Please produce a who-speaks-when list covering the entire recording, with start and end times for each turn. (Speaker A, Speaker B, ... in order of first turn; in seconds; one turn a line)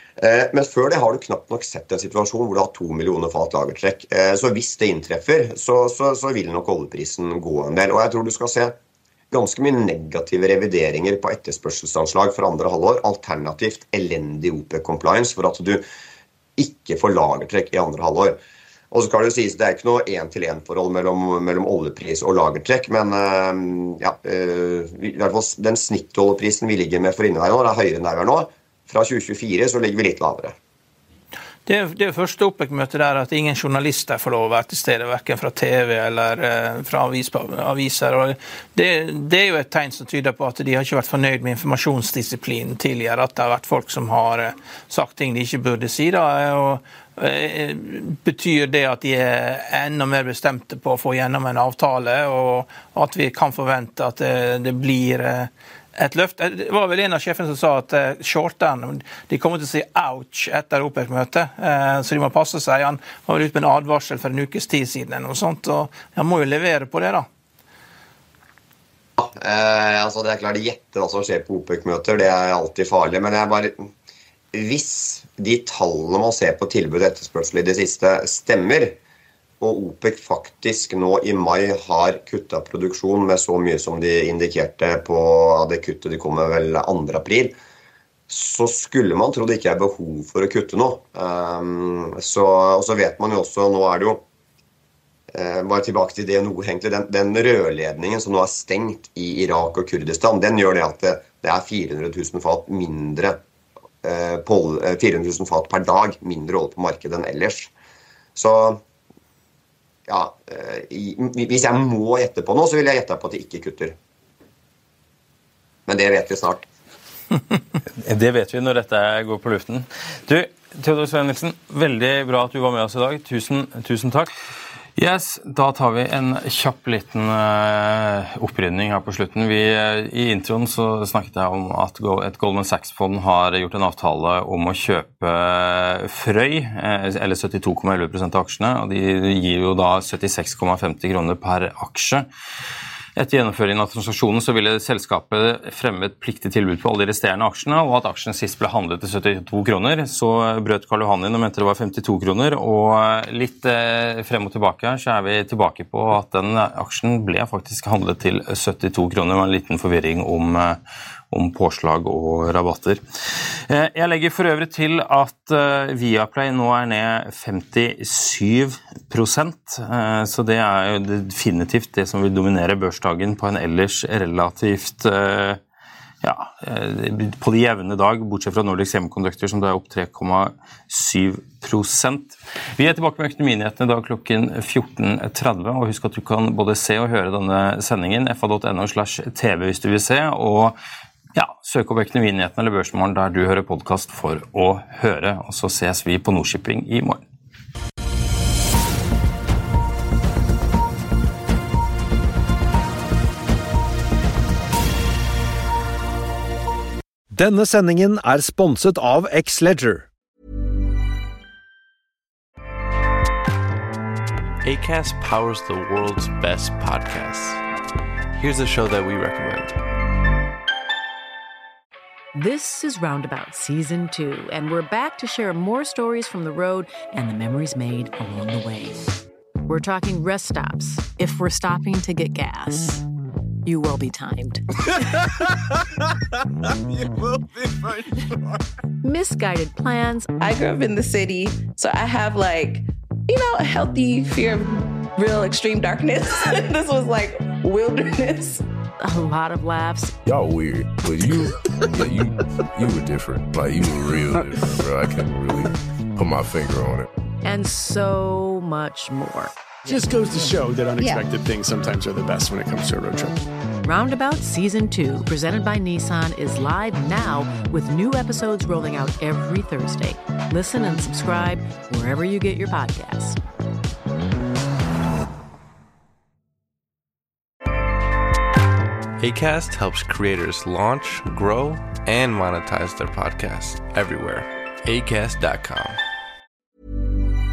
Speaker A: 0.2-8.8
Speaker A: 9.3-15.8
Speaker A: 16.6-18.4
Speaker A: 18.9-30.6
Speaker B: 31.7-67.3
Speaker A: 69.2-73.9
Speaker A: 74.5-79.0
Speaker A: 79.6-87.6
Speaker A: 88.3-94.2
Speaker A: 95.3-103.4
Speaker A: 104.0-107.7
Speaker A: 108.4-108.8
Speaker A: 110.1-114.0
Speaker A: 115.9-116.7
Speaker C: 118.0-124.3
Speaker C: 125.0-142.3
Speaker C: 143.2-175.6
Speaker C: 176.2-190.8
Speaker C: 191.3-197.2
Speaker D: 207.3-210.1
Speaker E: 214.6-217.6
Speaker E: 218.3-219.8
Speaker F: 222.3-229.1
Speaker F: 229.7-233.0
Speaker F: 233.7-234.6
Speaker F: 239.0-240.4
Speaker G: 240.3-248.6
Speaker F: 249.0-250.2
Speaker H: 250.2-257.1
Speaker F: 257.4-259.5
Speaker I: 259.9-263.4
Speaker G: 261.0-261.2
Speaker F: 263.8-273.4
Speaker E: 279.2-286.0